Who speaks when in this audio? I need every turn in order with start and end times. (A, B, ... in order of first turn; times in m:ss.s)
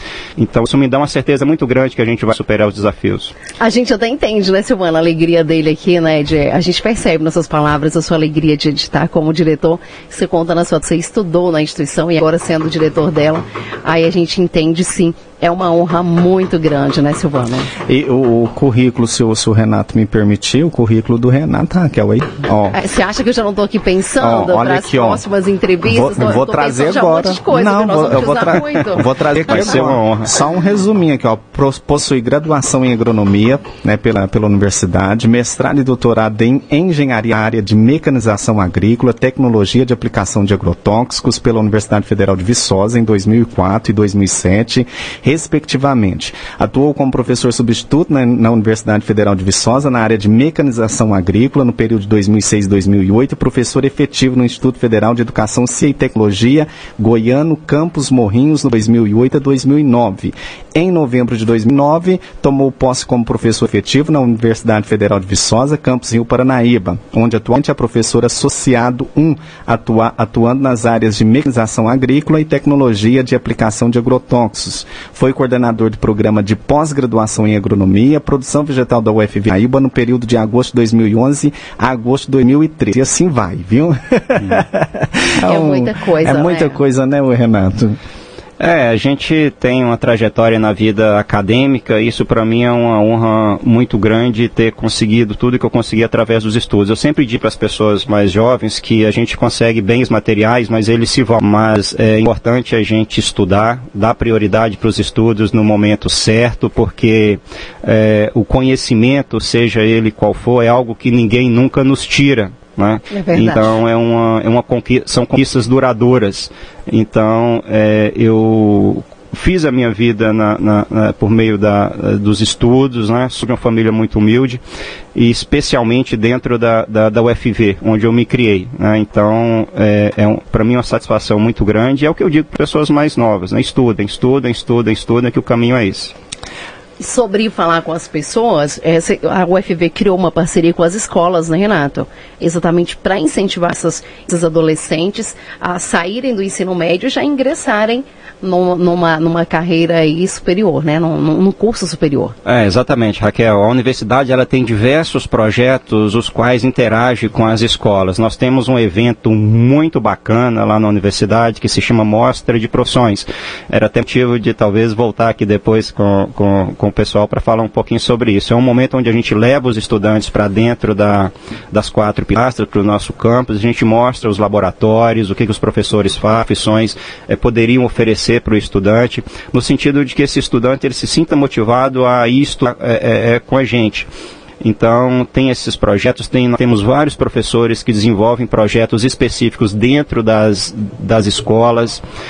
0:00.4-0:03.4 A
0:03.6-0:17.7 B
0:17.8-0:22.8 C
0:22.7-0:29.1 B
0:24.2-0:25.2 C
0:25.8-1:28.0 C
0:29.5-0:30.3 A
1:25.4-1:26.8 B
1:28.6-2:04.6 A
1:53.1-1:53.8 B
2:05.1-2:16.1 A
2:17.0-2:32.3 B
2:32.4-3:04.1 A
3:04.6-3:12.0 A